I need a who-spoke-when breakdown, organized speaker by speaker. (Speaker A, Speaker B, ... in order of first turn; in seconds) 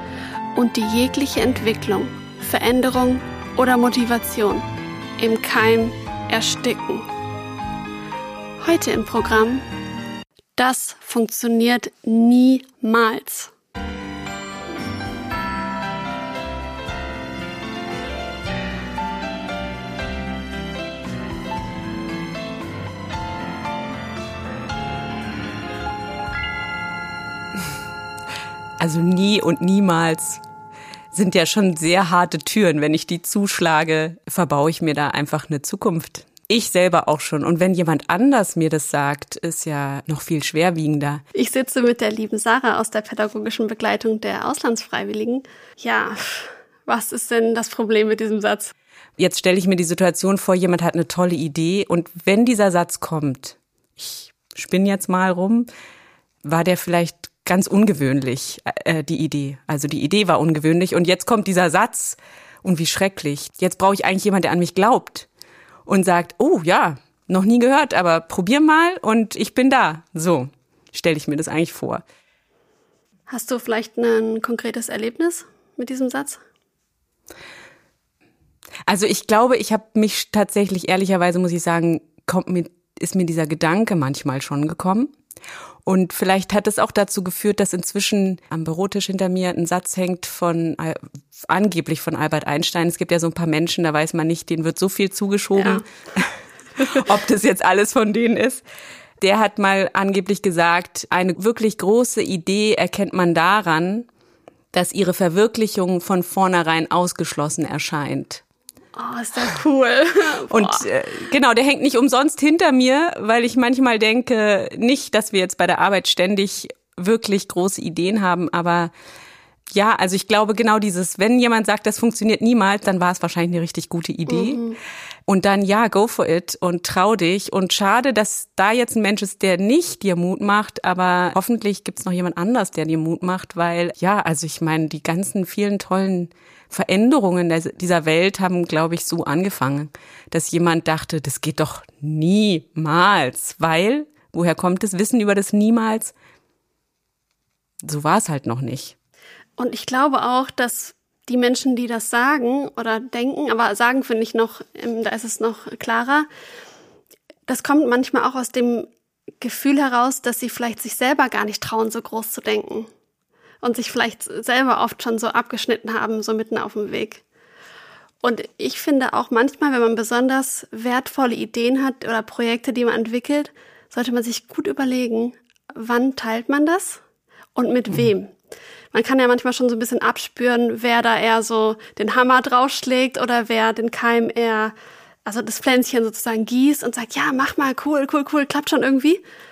Speaker A: 0.5-4.7, 5.2-7.1, 8.6-9.7, 10.6-13.5, 41.3-48.7, 73.3-76.4, 95.6-95.8, 108.9-110.9, 124.3-124.8, 149.6-156.3, 157.5-158.9, 159.4-162.9, 163.6-167.2, 168.2-177.0, 177.5-178.3, 178.9-184.7, 185.2-189.2
Speaker B: 28.8-30.4, 31.1-41.2, 49.2-55.7, 56.4-65.3, 65.8-72.0, 78.8-85.1, 85.8-98.6, 99.2-104.1, 104.7-108.4, 110.5-118.9, 119.7-124.7, 125.3-146.1, 147.8-148.9